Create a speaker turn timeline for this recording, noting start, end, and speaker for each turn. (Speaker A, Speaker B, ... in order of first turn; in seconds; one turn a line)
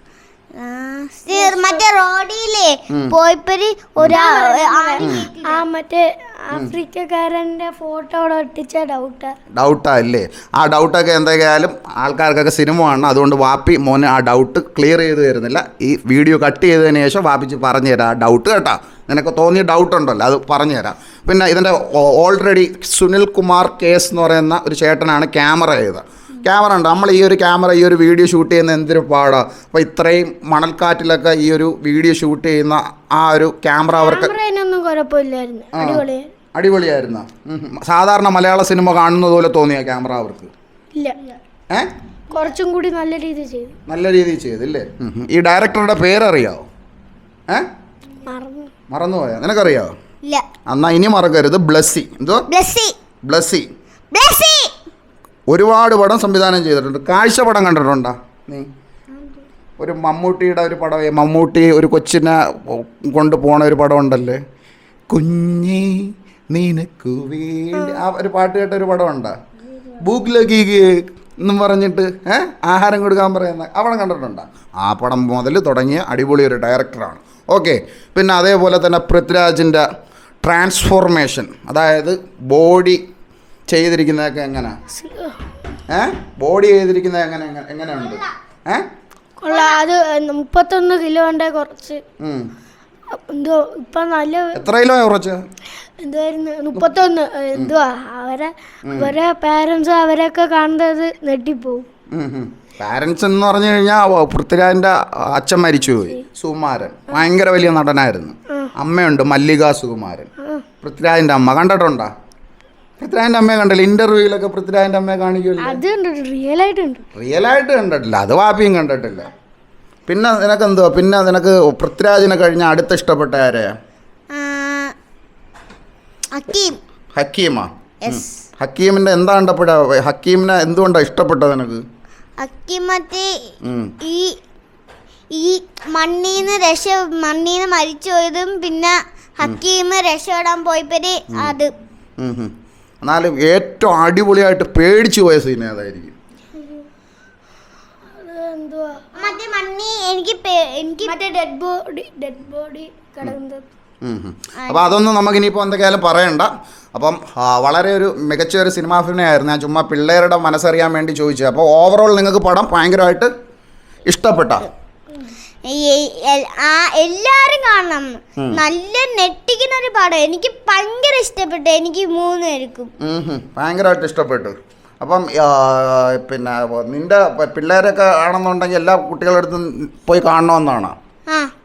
Speaker A: 0.6-5.6
Speaker B: 1.3-1.8
Speaker B: 4.1-9.3
Speaker C: 5.0-5.3
Speaker C: 9.5-34.3
Speaker B: 33.9-36.3
Speaker C: 35.7-40.5
Speaker B: 40.9-41.2
Speaker B: 42.3-43.8
Speaker C: 43.9-46.6
Speaker B: 48.2-48.7
Speaker C: 48.9-49.9
Speaker C: 50.7-52.5
Speaker A: 52.5-53.0
Speaker C: 53.2-53.7
Speaker A: 54.1-54.7
Speaker C: 55.5-58.7
Speaker A: 59.1-59.4
Speaker C: 59.8-64.4
Speaker C: 65.1-69.3
Speaker C: 70.0-79.8
Speaker C: 80.4-83.0
Speaker C: 83.7-84.8
Speaker B: 84.9-85.4
Speaker C: 85.9-88.9
Speaker B: 89.4-92.0
Speaker A: 89.5-89.8
Speaker C: 92.2-92.5
Speaker B: 93.1-94.6
Speaker C: 94.5-95.4
Speaker B: 96.0-101.9
Speaker C: 98.8-99.2
Speaker C: 102.1-110.3
Speaker C: 110.8-112.1
Speaker C: 113.0-115.8
Speaker B: 115.6-117.0
Speaker C: 117.2-119.3
Speaker C: 120.1-123.7
Speaker A: 124.3-124.9
Speaker A: 126.3-126.8
Speaker C: 127.2-131.8
Speaker A: 128.0-128.4
Speaker A: 132.4-134.4
Speaker C: 133.6-133.9
Speaker A: 135.3-141.7
Speaker C: 142.2-142.5
Speaker C: 143.0-146.1
Speaker B: 146.6-146.9
Speaker B: 148.1-149.2
Speaker A: 149.2-151.1
Speaker B: 151.0-153.7
Speaker C: 154.0-163.3
Speaker A: 154.6-154.9
Speaker C: 164.1-164.7
Speaker A: 165.7-172.9
Speaker C: 173.0-180.9